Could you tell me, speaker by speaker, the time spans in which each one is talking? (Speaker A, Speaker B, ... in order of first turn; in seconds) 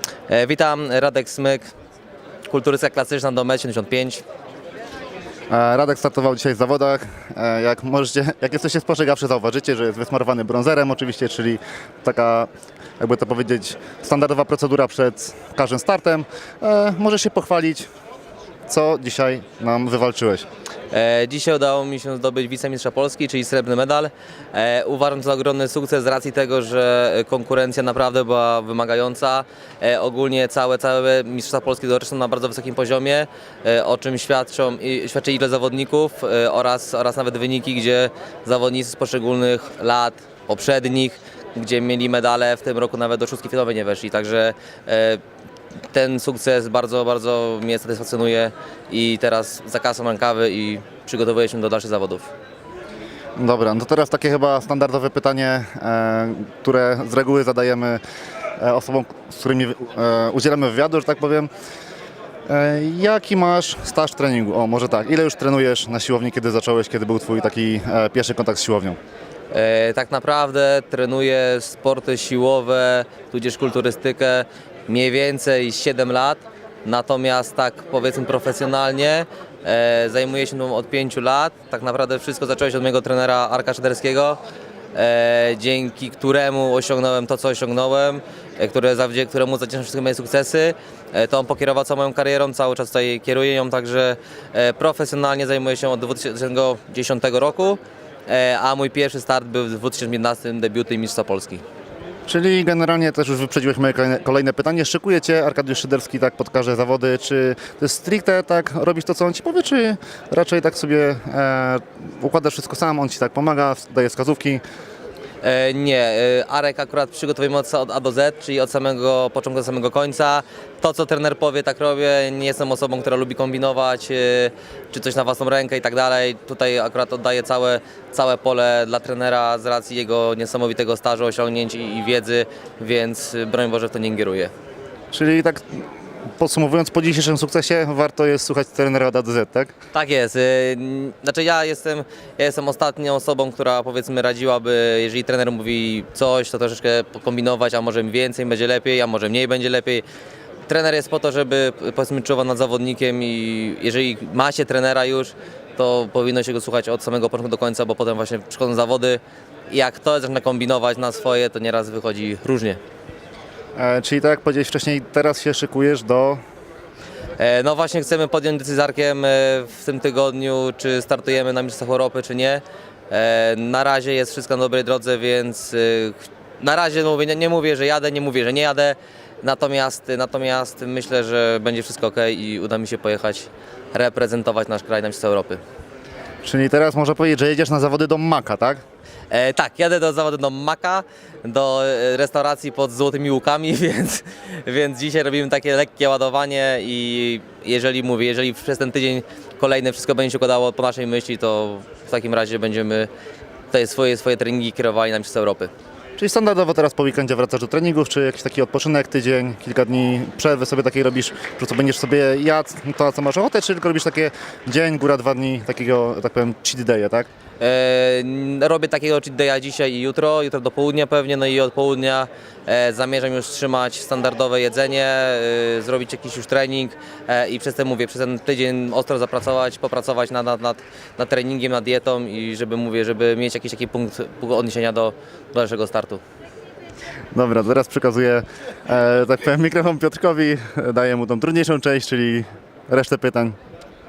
Speaker A: 0.3-1.7, 2.5-4.2, 20.9-45.2, 45.9-52.3, 69.5-84.4, 84.9-101.6, 115.4-134.5, 139.9-150.0, 150.7-162.8, 167.4-185.6, 189.3-203.1, 203.7-205.7, 217.6-236.2
Speaker B: 5.5-17.9, 18.7-20.4, 53.4-58.0, 58.6-61.5, 62.5-69.0, 102.3-114.6, 135.1-135.8, 136.4-139.7, 163.8-166.4, 186.4-188.8, 206.2-217.3, 237.3-243.6